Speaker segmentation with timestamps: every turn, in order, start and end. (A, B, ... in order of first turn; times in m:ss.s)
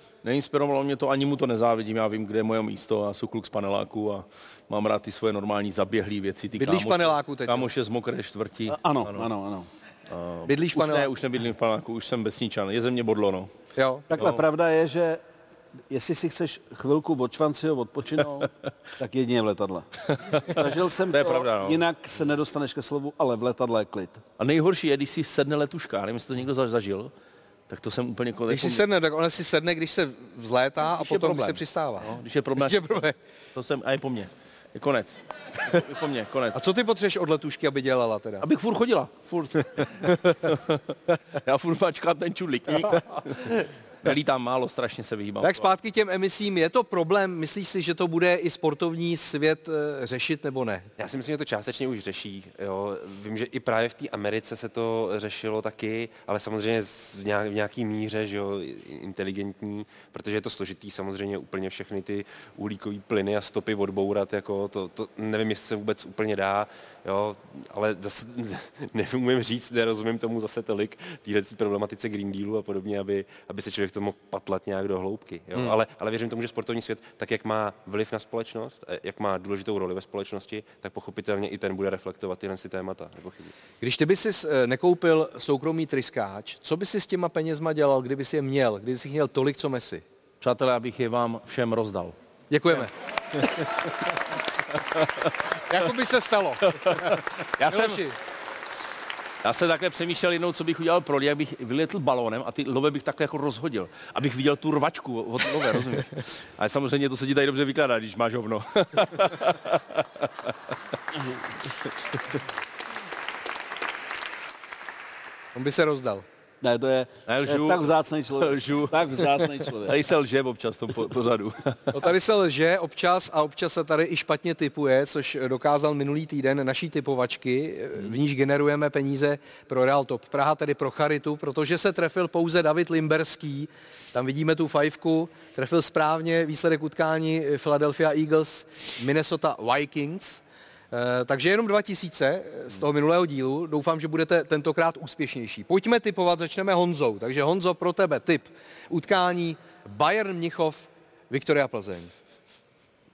0:00.2-0:09.3 A
0:06.5-0:07.7 B
0:08.7-0:09.7 C
0:10.1-0:13.5 A
0:10.5-0:11.1 B
0:13.8-0:14.1 B
0:14.1-0:15.2 C
0:14.1-0:14.4 A
0:15.9-0:24.2 C
0:20.2-0:21.8 A
0:24.4-0:27.1 A
0:27.7-0:28.8 A
0:28.5-0:33.2 B
0:31.0-0:36.6 A
0:36.5-0:38.4 B
0:38.4-0:45.7 A
0:45.4-0:50.9 B
0:51.0-1:23.5 D
1:23.8-1:30.0 B
1:30.4-1:32.2 A
1:32.5-1:32.9 B
1:35.0-1:35.3 A
1:35.7-1:38.2 B
1:36.7-1:38.0 A
1:39.4-1:50.5 A
1:55.6-1:56.2 B
1:56.6-1:59.9 C
1:57.3-2:01.9 A
2:01.9-2:32.1 B